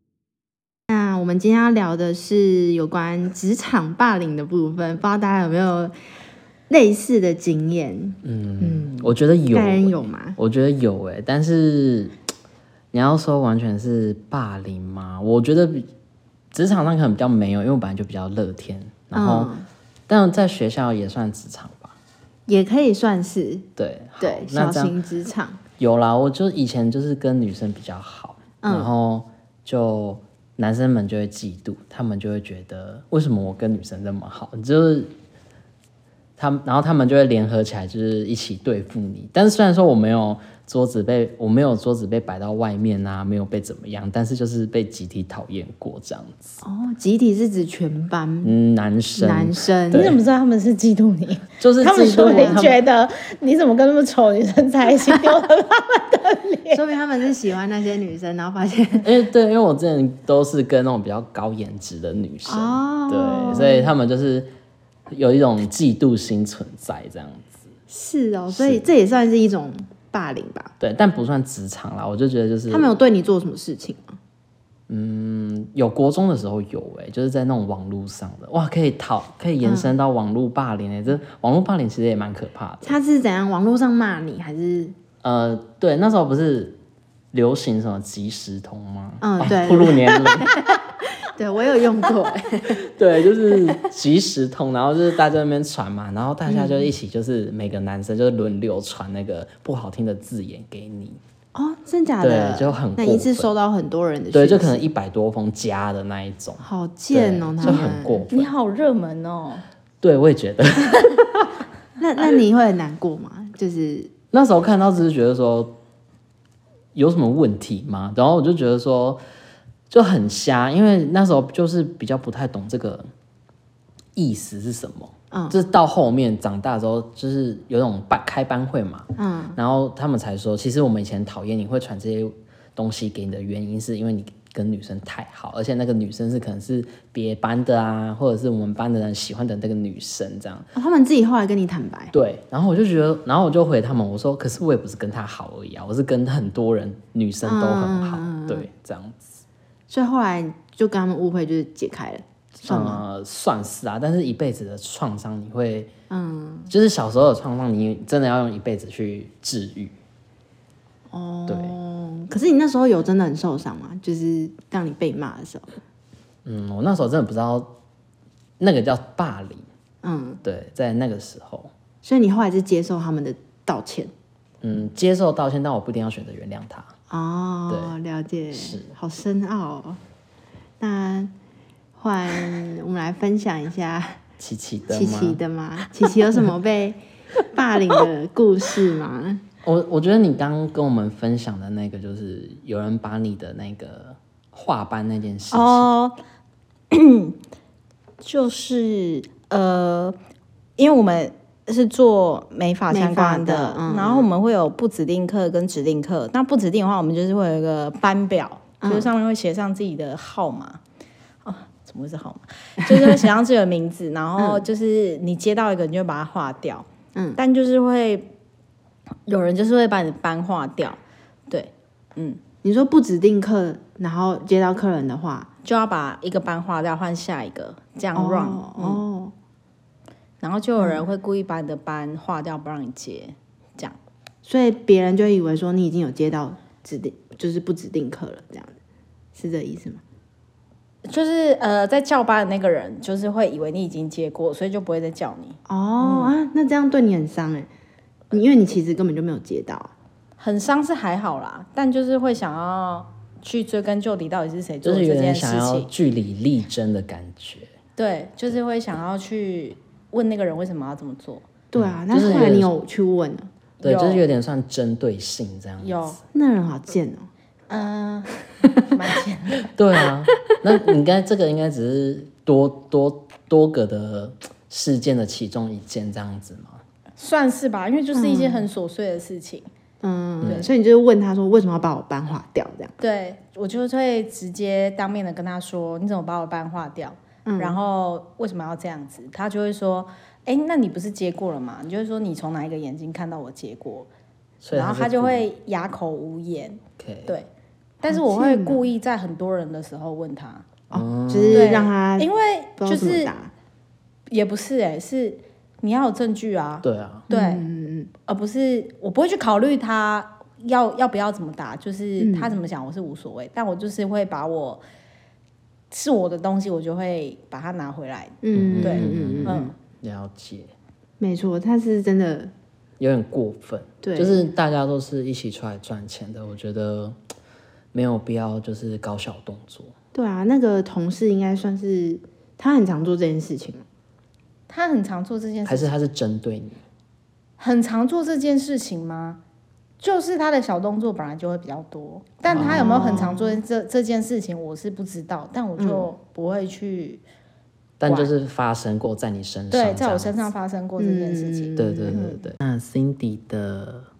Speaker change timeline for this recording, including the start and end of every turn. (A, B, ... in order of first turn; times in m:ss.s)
0:00.9-0:05.9 A
0:06.7-0:10.4 A
0:08.2-0:12.1 B
0:12.9-0:15.9 B
0:16.5-0:19.5 B
0:19.1-0:19.7 A
0:20.1-0:21.9 B
0:22.5-0:23.7 A
0:23.8-0:25.0 B
0:24.2-0:25.6 A
0:25.8-0:35.1 B
0:28.6-0:28.9 A
0:36.4-0:46.6 B
0:46.6-0:48.5 A
0:48.4-0:50.2 B
0:49.1-0:50.1 A
0:49.9-0:56.8 C
0:51.6-0:52.8 B
0:51.9-0:52.8 A
0:56.7-0:59.2 A
0:59.0-1:04.5 B
1:02.4-1:03.9 A
1:05.1-1:07.6 B
1:07.9-1:10.7 A
1:08.5-1:08.8 B
1:10.8-1:12.9 B
1:12.7-1:14.2 A
1:14.9-1:23.0 B
1:19.6-1:19.9 A
1:22.8-1:24.9 A
1:25.2-1:26.8 B
1:27.3-1:30.5 B
1:29.2-1:32.8 A
1:32.7-1:41.2 B
1:36.4-1:36.9 A
1:41.5-1:44.8 A
1:42.2-1:43.5 B
1:44.3-1:48.5 B
1:46.6-1:48.2 A
1:47.6-1:49.6 C
1:50.0-1:51.3 B
1:52.0-1:54.1 A
1:54.3-1:55.8 B
1:56.9-1:59.2 B
1:59.9-2:03.1 B
2:04.2-2:20.7 B
2:05.3-2:05.6 A
2:09.2-2:09.6 A
2:20.7-2:22.1 A
2:22.1-2:29.4 B
2:27.4-2:28.7 A
2:29.9-2:33.0 A
2:32.6-2:35.9 B
2:36.1-2:36.7 A
2:36.7-2:39.9 B
2:41.1-2:45.7 A
2:41.5-2:41.8 B
2:46.4-2:47.7 B
2:48.6-2:49.6 B
2:50.0-2:50.4 A
2:50.4-2:51.7 B
2:52.0-2:54.1 A
2:54.6-2:56.9 B
2:57.1-3:00.0 A
2:57.7-2:57.9 B
2:58.5-2:58.9 B
3:00.8-3:01.3 A
3:02.0-3:04.2 A
3:04.4-3:05.4 B
3:04.9-3:09.4 A
3:09.6-3:15.9 B
3:15.5-3:16.2 C
3:16.9-3:17.4 C
3:18.2-3:20.2 C
3:20.8-3:30.8 C
3:22.9-3:24.3 A
3:28.8-3:29.1 A
3:31.4-3:38.3 C
3:34.4-3:34.6 A
3:37.1-3:37.4 A
3:39.2-3:42.4 C
3:42.6-3:45.5 A
3:45.6-3:49.0 C
3:48.1-3:49.3 A
3:50.4-3:54.0 C
3:50.8-3:51.0 A
3:54.4-3:58.8 A
3:59.3-4:00.0 A
4:01.0-4:06.3 C
4:05.7-4:07.7 A
4:08.3-4:09.9 A
4:10.4-4:15.9 C
4:14.8-4:17.7 B
4:18.0-4:21.5 C
4:21.7-4:23.5 A
4:21.7-4:22.7 B
4:22.2-4:22.6 C
4:23.8-4:24.2 C
4:23.8-4:26.2 B
4:25.8-4:26.2 C
4:26.3-4:27.3 A
4:27.7-4:29.7 C
4:29.7-4:36.8 B
4:37.2-4:39.7 C
4:38.1-4:38.7 A
4:40.0-4:42.9 A
4:40.4-4:40.7 C
4:43.0-4:54.1 C
4:47.4-4:47.8 A
4:54.6-4:55.4 B
4:54.7-4:57.5 C
4:57.0-4:57.4 B
4:58.0-5:00.7 C
4:58.0-4:58.8 A
5:00.9-5:01.8 B
5:00.9-5:03.5 A
5:01.5-5:03.3 C
5:04.3-5:07.7 C
5:06.8-5:07.2 B
5:07.3-5:08.1 A
5:08.2-5:14.8 C
5:12.2-5:12.6 A
5:15.9-5:19.7 C
5:18.4-5:19.7 A
5:18.5-5:20.7 B
5:21.2-5:22.5 A
5:23.0-5:27.2 B
5:24.0-5:24.4 A
5:27.9-5:29.9 B
5:30.1-5:33.8 A
5:34.7-5:35.9 C
5:35.6-5:36.8 B
5:37.6-5:39.4 C
5:40.0-5:47.2 C
5:42.5-5:43.3 B
5:42.5-5:43.6 A
5:45.8-5:46.1 A
5:48.0-5:50.4 B
5:48.0-5:48.3 C
5:49.7-5:52.4 C
5:51.0-5:52.2 A
5:51.8-5:54.1 B